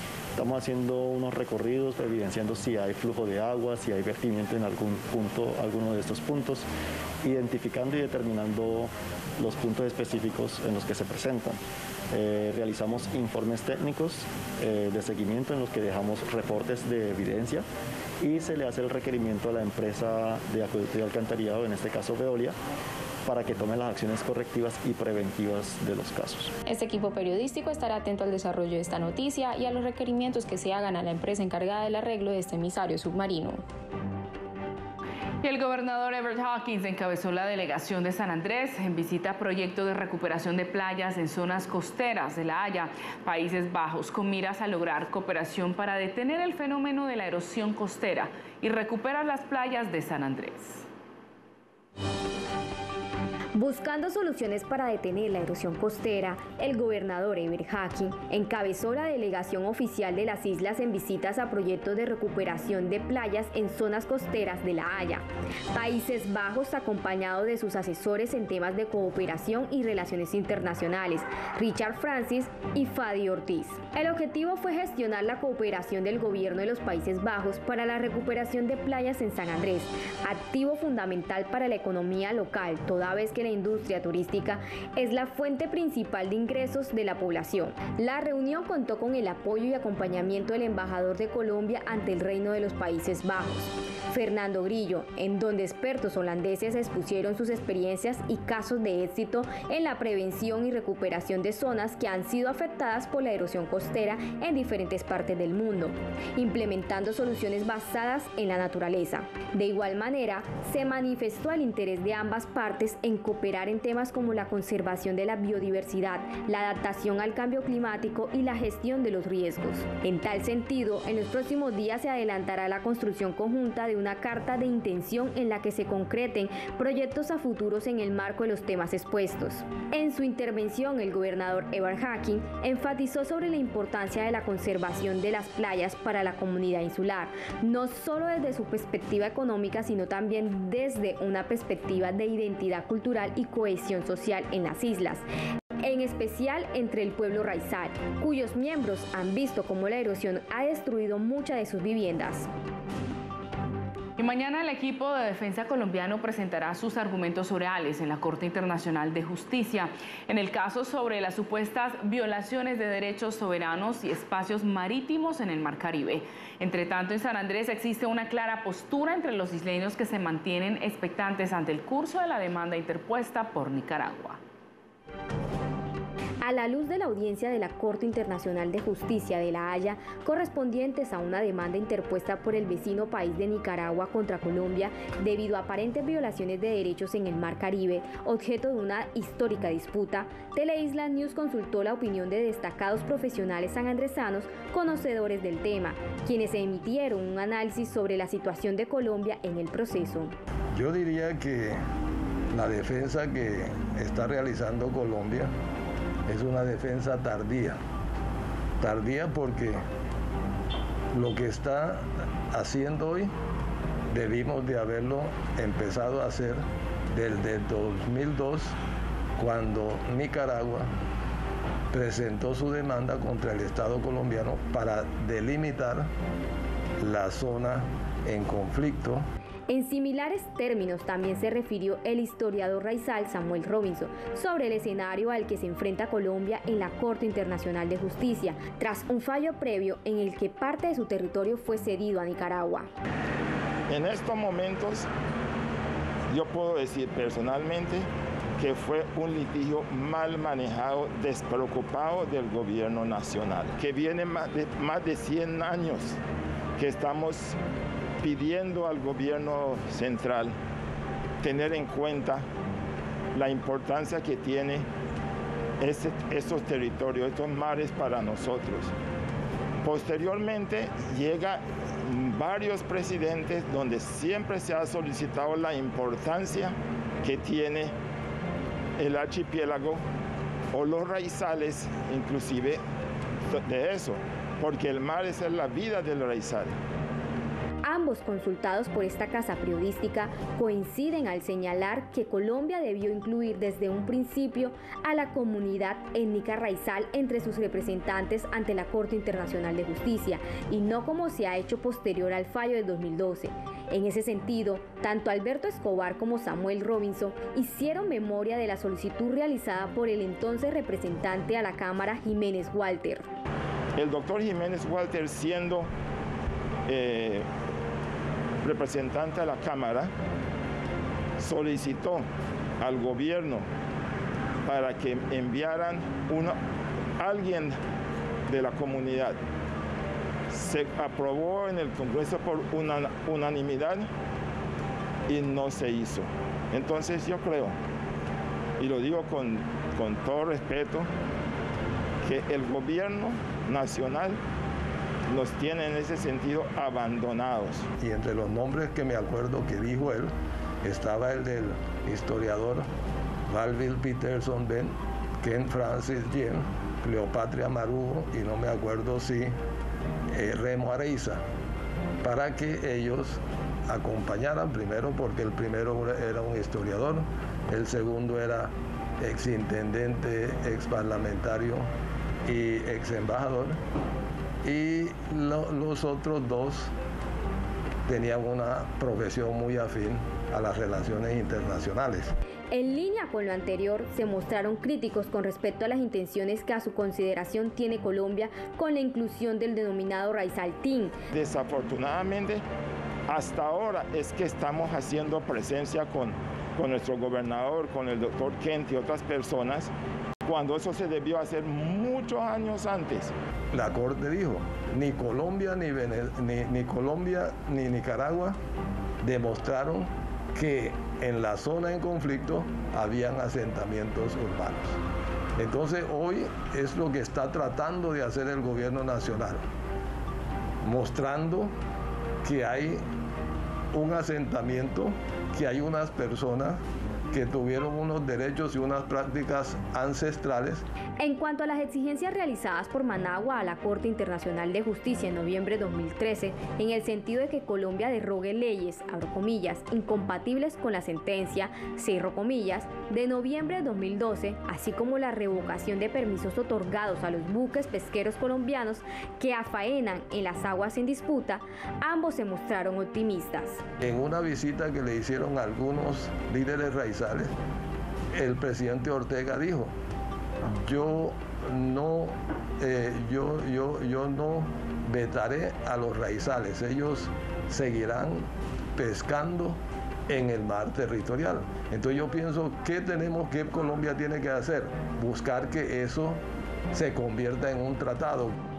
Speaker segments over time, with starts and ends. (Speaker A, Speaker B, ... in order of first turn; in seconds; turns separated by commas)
Speaker A: 0.3-6.7, Speaker A: 7.2-11.6, Speaker A: 12.1-17.6, Speaker A: 18.2-22.6, Speaker A: 23.2-26.5, Speaker B: 26.6-33.6, Speaker C: 35.4-50.9, Speaker D: 53.5-145.2, Speaker D: 145.8-152.5, Speaker C: 154.2-174.4, Speaker D: 176.4-200.3, Speaker E: 200.7-201.8, Speaker E: 202.5-205.5, Speaker E: 206.3-207.8, Speaker E: 208.8-209.8, Speaker E: 211.1-213.3, Speaker E: 214.1-218.7, Speaker E: 219.4-220.9, Speaker E: 221.9-226.1, Speaker E: 227.0-229.2, Speaker D: 229.7-242.9, Speaker F: 243.9-245.1, Speaker F: 246.3-248.1, Speaker F: 248.6-256.2, Speaker F: 256.8-257.6, Speaker F: 258.2-260.5, Speaker F: 261.4-262.4, Speaker F: 263.3-264.9, Speaker F: 265.8-268.9, Speaker F: 269.8-277.9, Speaker F: 279.0-280.0, Speaker F: 280.7-282.8, Speaker F: 283.5-286.7, Speaker D: 287.8-313.3, Speaker F: 313.9-315.9, Speaker F: 316.9-317.4, Speaker F: 318.6-320.1, Speaker F: 321.4-322.2, Speaker F: 322.8-323.6, Speaker F: 324.6-326.6, Speaker F: 327.2-327.8, Speaker F: 328.5-329.4, Speaker F: 330.5-334.1, Speaker F: 335.3-337.7, Speaker F: 338.8-341.1, Speaker F: 342.2-344.4, Speaker F: 345.3-347.9, Speaker E: 348.0-350.3, Speaker E: 350.8-352.9, Speaker E: 353.5-359.5, Speaker E: 360.3-361.4, Speaker E: 362.2-371.9, Speaker E: 372.4-373.8, Speaker E: 374.6-376.9, Speaker E: 378.1-382.3, Speaker D: 382.7-391.1, Speaker F: 391.3-392.6, Speaker F: 393.3-399.9, Speaker F: 400.4-403.3, Speaker E: 403.7-408.6, Speaker E: 409.2-415.0, Speaker E: 415.6-419.6, Speaker E: 420.8-421.7, Speaker E: 422.4-423.0, Speaker E: 423.9-426.8, Speaker E: 427.3-430.8, Speaker D: 431.2-453.8, Speaker E: 454.0-457.5, Speaker E: 458.3-459.9, Speaker E: 460.8-476.4, Speaker E: 476.9-478.5